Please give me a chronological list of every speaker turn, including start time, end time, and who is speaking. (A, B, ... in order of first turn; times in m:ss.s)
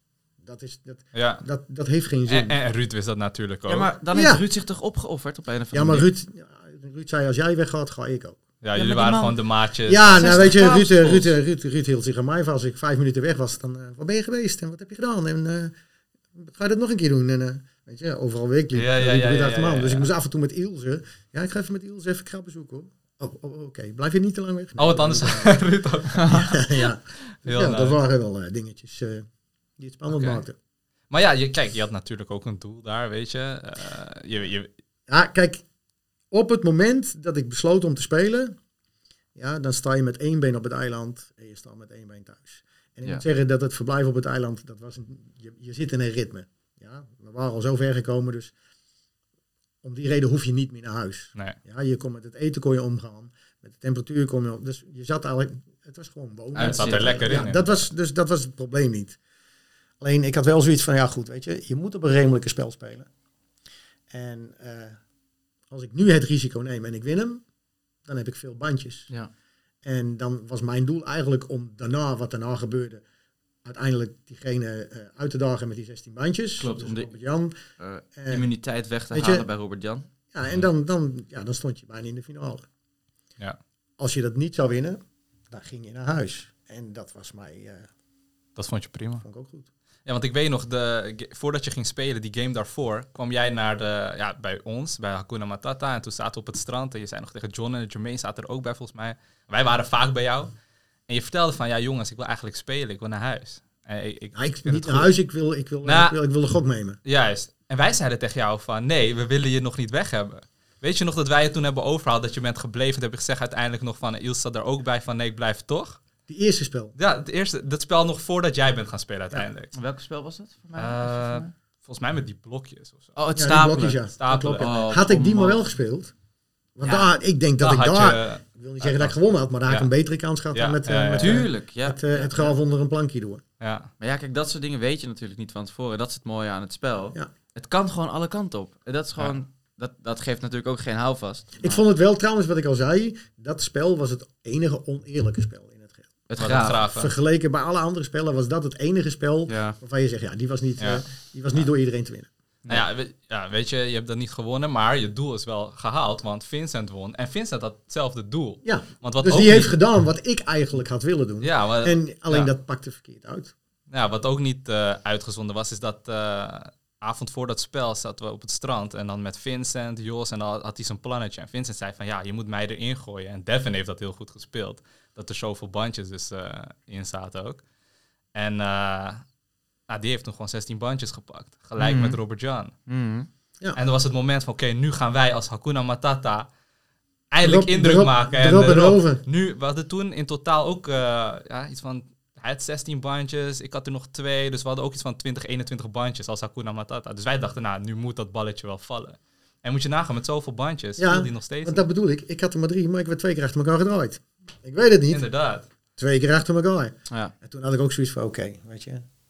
0:00.4-0:02.6 A
0:01.1-0:01.4 B
0:02.3-0:03.9 B
0:03.7-0:06.1 C
0:04.1-0:04.4 A
0:05.7-0:08.4 A
0:08.6-0:10.5 B
0:08.7-0:09.4 C
0:09.9-0:15.7 A
0:10.2-0:11.3 C
0:16.3-0:25.6 A
0:18.7-0:20.1 B
0:24.8-0:26.6 B
0:26.1-0:26.6 C
0:26.3-0:29.3 A
0:27.3-0:28.0 B
0:29.8-0:30.6 A
0:30.1-0:30.4 B
0:31.1-0:34.7 B
0:35.1-0:35.6 A
0:36.3-0:38.6 A
0:39.3-0:48.5 A
0:49.8-0:59.2 A
0:56.5-0:57.4 C
0:56.6-0:57.8 B
1:00.0-1:03.1 A
1:04.1-1:05.0 A
1:05.7-1:07.4 A
1:08.0-1:09.1 A
1:09.8-1:13.0 A
1:13.6-1:17.5 A
1:16.6-1:17.1 C
1:17.8-1:20.0 C
1:18.2-1:18.4 A
1:19.1-1:19.4 A
1:20.3-1:22.6 A
1:24.0-1:25.0 A
1:25.5-1:27.9 A
1:28.6-1:29.2 B
1:29.2-1:29.7 A
1:30.0-1:40.5 B
1:41.1-1:45.1 B
1:44.3-1:47.0 A
1:45.8-1:46.2 B
1:47.0-1:56.0 B
1:56.3-1:56.9 A
1:57.0-1:59.7 B
1:59.7-2:01.5 C
2:00.8-2:03.1 B
2:03.2-2:05.6 C
2:03.3-2:06.1 A
2:04.2-2:04.7 B
2:06.8-2:13.4 A
2:06.8-2:07.1 C
2:07.6-2:09.1 B
2:10.5-2:11.5 B
2:11.2-2:12.3 C
2:13.6-2:13.9 B
2:14.0-2:21.8 C
2:21.6-2:26.2 A
2:26.3-2:26.8 C
2:26.4-2:27.1 B
2:26.9-2:32.3 A
2:29.5-2:29.8 C
2:30.8-2:31.0 B
2:32.6-2:39.8 B
2:38.6-2:43.5 A
2:41.4-2:42.5 B
2:43.9-2:57.6 B
2:58.3-2:59.2 B
2:59.9-3:02.7 B
3:01.8-3:02.2 C
3:02.9-3:03.3 C
3:03.7-3:06.5 B
3:07.3-3:21.8 B
3:07.4-3:09.2 A
3:21.0-3:25.3 A
3:25.1-3:25.7 B
3:26.0-3:29.0 A